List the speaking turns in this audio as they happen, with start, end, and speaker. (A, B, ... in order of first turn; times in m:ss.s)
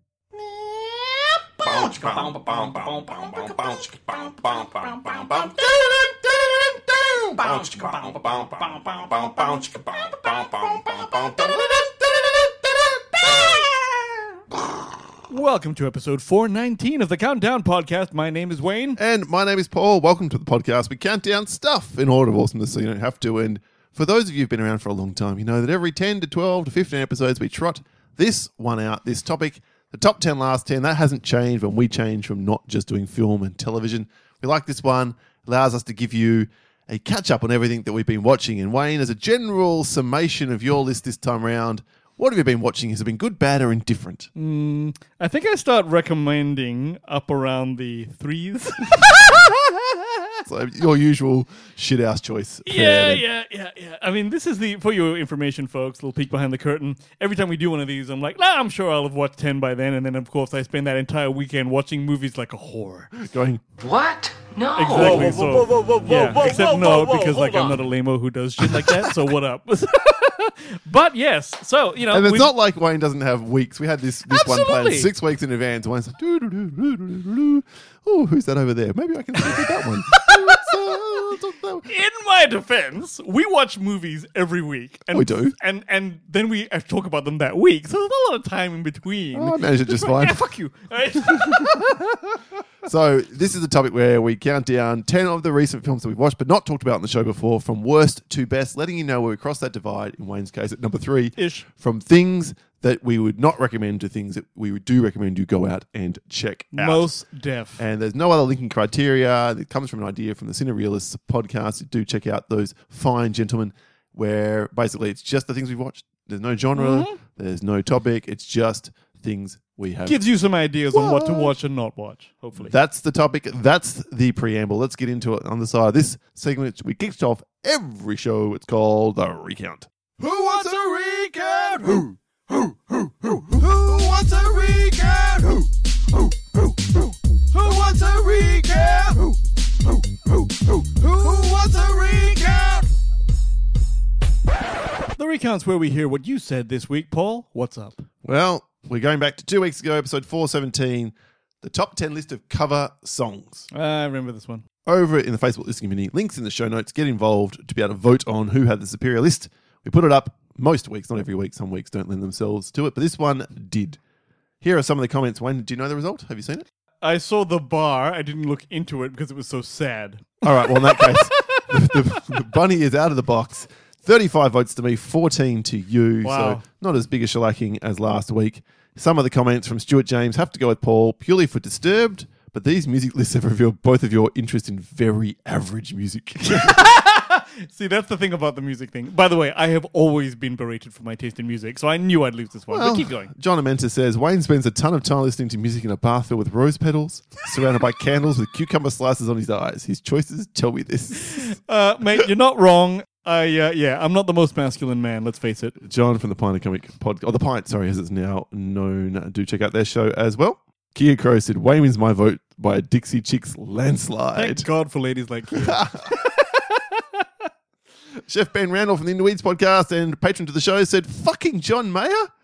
0:00.3-0:07.8 A
0:01.6-0:04.6 B
0:07.4-0:08.8 B
0:09.1-0:14.0 A
0:15.3-0:19.0 C
0:19.0-0:44.3 B
0:44.3-0:50.4 C
0:50.4-0:53.2 B
0:52.6-1:03.1 C
1:03.2-1:03.6 B
1:03.8-1:07.7 A
1:04.8-1:12.5 C
1:04.9-1:05.3 B
1:08.6-1:09.1 B
1:12.1-1:21.9 B
1:14.2-1:15.1 C
1:20.1-1:20.7 C
1:21.8-1:32.1 C
1:25.1-1:25.6 B
1:29.3-1:30.4 B
1:31.3-1:32.0 B
1:32.8-1:47.1 B
1:41.4-1:41.6 C
1:46.7-1:47.8 C
1:47.8-2:00.2 B
1:56.7-1:57.2 C
2:00.0-2:02.7 C
2:00.9-2:01.6 B
2:02.6-2:15.7 B
2:16.5-2:16.9 B
2:17.5-2:19.4 B
2:20.3-2:22.8 B
2:25.2-2:28.1 C
2:28.2-2:33.7 B
2:33.7-2:34.6 C
2:34.8-2:44.0 B
2:44.6-2:46.6 B
2:47.0-2:51.9 C
2:50.4-3:06.9 B
2:56.2-2:56.6 C
3:06.4-3:13.3 C
3:12.7-3:21.5 B
3:21.2-3:25.8 C
3:25.8-3:34.7 B
3:34.3-3:37.2 C
3:35.5-3:36.2 B
3:38.2-3:42.3 B